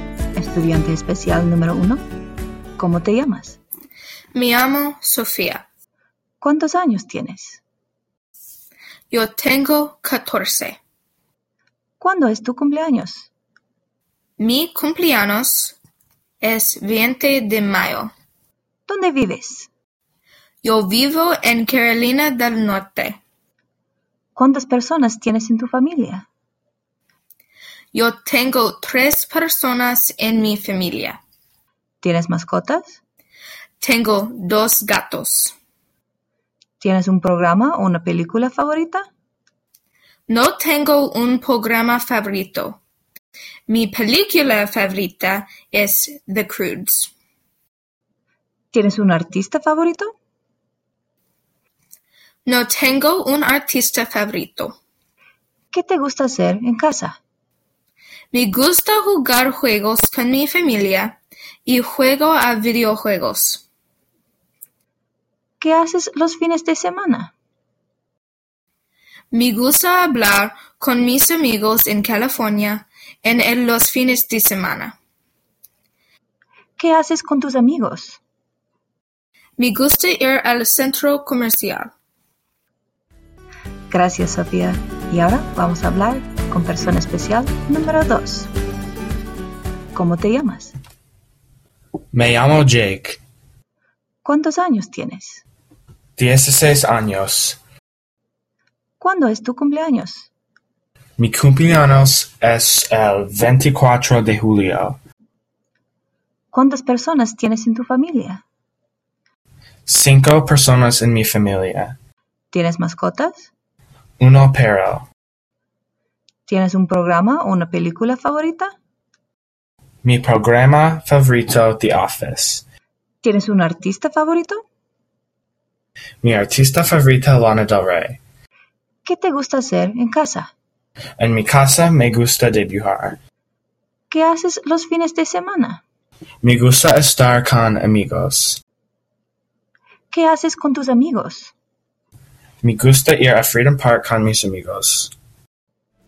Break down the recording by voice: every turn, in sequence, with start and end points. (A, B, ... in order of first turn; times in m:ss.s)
0:00.4-0:02.0 A
0:02.8-0:03.6 A
0:04.3-0:05.7 B
0:06.4-0:07.6 A
0:09.1-0:10.8 B
0:12.0-0:13.3 A
0:14.4-0:15.8 B
0:16.4-0:18.1 B
0:18.9-0:19.7 A
0:20.6-0:23.2 B
0:24.4-0:26.3 A
0:27.9-0:31.2 B
0:32.0-0:33.0 A
0:33.8-0:35.6 B
0:36.8-0:39.1 A
0:40.3-0:42.8 B
0:43.7-0:47.1 B
0:48.7-0:50.1 A
0:52.5-0:54.8 B
0:55.7-0:57.2 A
0:58.3-1:03.6 B
1:05.6-1:07.3 A
1:09.3-1:15.0 B
1:16.8-1:18.2 A
1:19.6-1:21.9 B
1:23.9-1:28.5 A
1:29.9-1:30.8 A
1:32.1-1:33.2 C
1:34.2-1:35.4 A
1:36.2-1:37.6 C
1:39.0-1:40.3 A
1:41.2-1:45.0 C
1:46.5-1:48.4 A
1:49.9-1:52.0 C
1:52.5-1:53.5 A
1:54.2-1:55.1 C
1:56.5-1:58.7 A
2:00.0-2:02.6 C
2:03.2-2:04.6 A
2:06.2-2:08.2 C
2:09.0-2:10.5 A
2:11.2-2:13.2 C
2:14.1-2:15.8 A
2:16.4-2:18.6 C
2:20.1-2:21.5 A
2:22.6-2:25.1 C